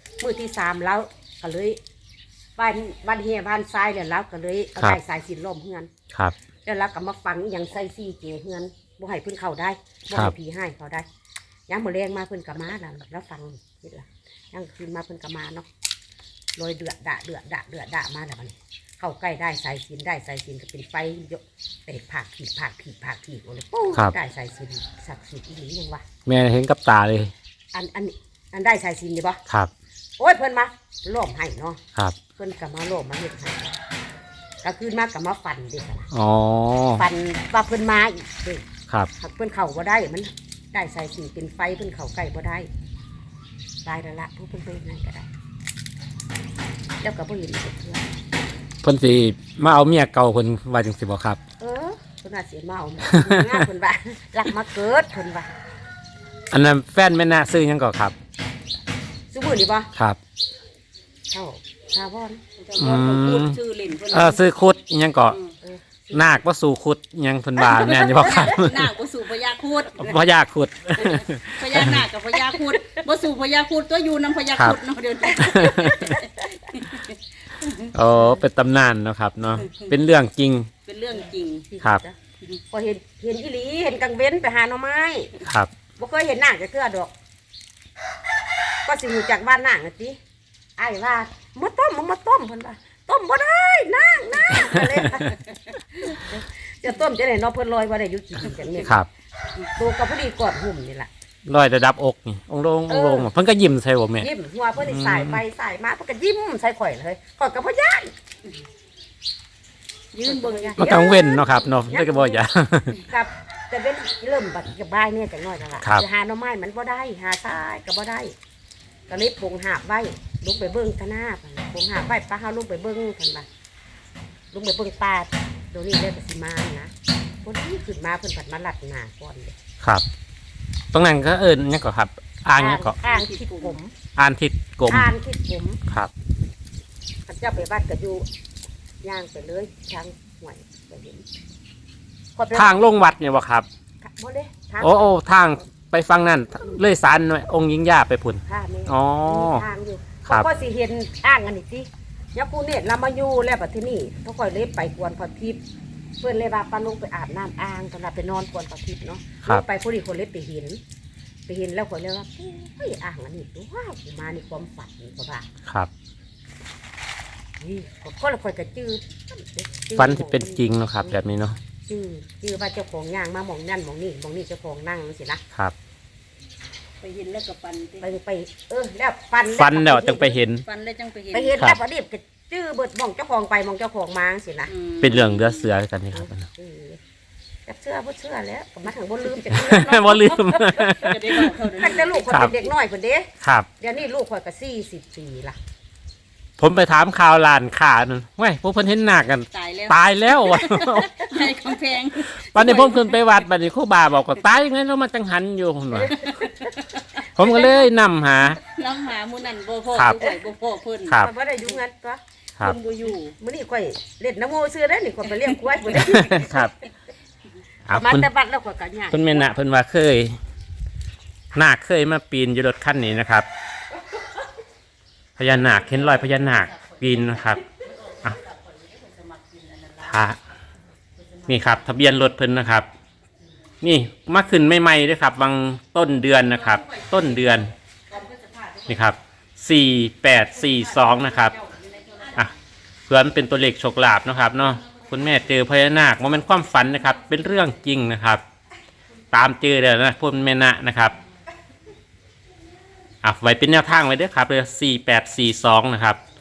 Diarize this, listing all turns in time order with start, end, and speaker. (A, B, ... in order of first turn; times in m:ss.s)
0:00.2-0:01.8 A
0:02.6-0:05.9 A
0:06.6-0:11.1 A
0:11.7-0:15.7 A
0:16.6-0:26.0 A
0:26.3-0:27.3 B
0:27.7-0:29.4 A
0:30.2-0:31.8 A
0:32.4-0:33.8 A
0:34.6-0:36.1 A
0:36.1-0:37.0 B
0:37.0-0:38.6 A
0:39.2-0:42.7 A
0:43.8-0:45.3 A
0:47.0-0:48.1 A
0:48.8-0:51.4 B
0:51.6-0:55.5 A
0:53.1-0:53.6 B
0:56.5-0:58.1 B
0:59.3-0:59.9 A
1:01.3-1:02.4 A
1:02.6-1:04.5 C
1:02.8-1:03.6 B
1:04.1-1:05.4 B
1:05.3-1:05.5 C
1:05.6-1:06.4 A
1:06.1-1:08.9 B
1:07.6-1:10.2 C
1:10.0-1:12.0 B
1:11.0-1:17.9 C
1:15.4-1:16.2 B
1:15.5-1:16.2 A
1:17.9-1:20.7 B
1:18.1-1:18.4 A
1:19.6-1:19.9 C
1:20.9-1:21.7 C
1:21.2-1:22.2 A
1:22.7-1:25.3 A
1:25.4-1:25.7 B
1:26.0-1:27.1 A
1:28.8-1:30.2 A
1:30.8-1:35.4 A
1:36.0-1:39.0 A
1:39.8-1:41.1 A
1:41.5-1:45.4 B
1:42.9-1:43.3 A
1:44.2-1:48.1 A
1:50.1-1:50.9 C
1:50.2-1:52.4 A
1:50.8-1:53.0 B
1:53.1-1:58.3 A
1:59.1-2:03.5 A
2:04.5-2:06.9 A
2:07.4-2:09.6 A
2:10.9-2:13.0 B
2:12.6-2:13.9 A
2:13.0-2:13.8 C
2:14.2-2:15.1 B
2:14.9-2:15.8 A
2:17.3-2:18.2 A
2:19.0-2:21.3 A
2:22.4-2:22.8 A
2:22.5-2:23.7 B
2:24.0-2:25.1 A
2:24.8-2:29.7 B
2:28.5-2:35.6 A
2:36.2-2:40.8 A
2:41.5-2:45.5 A
2:47.6-2:51.2 A
2:50.0-2:51.6 B
2:51.8-2:55.4 A
2:57.0-2:58.1 C
2:58.0-3:00.4 A
2:59.5-3:00.6 B
3:00.6-3:01.6 C
3:01.3-3:04.7 A
3:04.7-3:05.7 C
3:05.0-3:06.5 B
3:06.1-3:07.0 A
3:07.7-3:10.9 A
3:09.5-3:11.5 B
3:11.0-3:12.7 C
3:11.8-3:13.3 A
3:13.4-3:13.7 B
3:13.8-3:15.6 A
3:16.6-3:21.6 B
3:19.5-3:23.2 C
3:22.2-3:26.2 B
3:25.9-3:26.7 A
3:26.2-3:27.3 C
3:27.3-3:28.6 B
3:28.6-3:31.8 C
3:29.9-3:30.2 B
3:31.1-3:32.2 A
3:32.6-3:33.4 C
3:33.4-3:36.6 A
3:35.8-3:36.8 B
3:37.9-3:38.3 B
3:37.9-3:39.6 A
3:39.1-3:40.4 B
3:41.5-3:43.5 B
3:45.4-3:47.6 B
3:45.6-3:50.3 C
3:50.0-3:50.4 B
3:51.3-3:51.8 C
3:51.5-3:52.9 B
3:53.8-3:57.7 B
3:56.6-3:57.6 C
3:58.1-3:59.2 C
3:58.9-4:01.6 B
4:00.5-4:02.5 C
4:03.1-4:08.4 B
4:09.3-4:11.2 B
4:13.2-4:16.2 B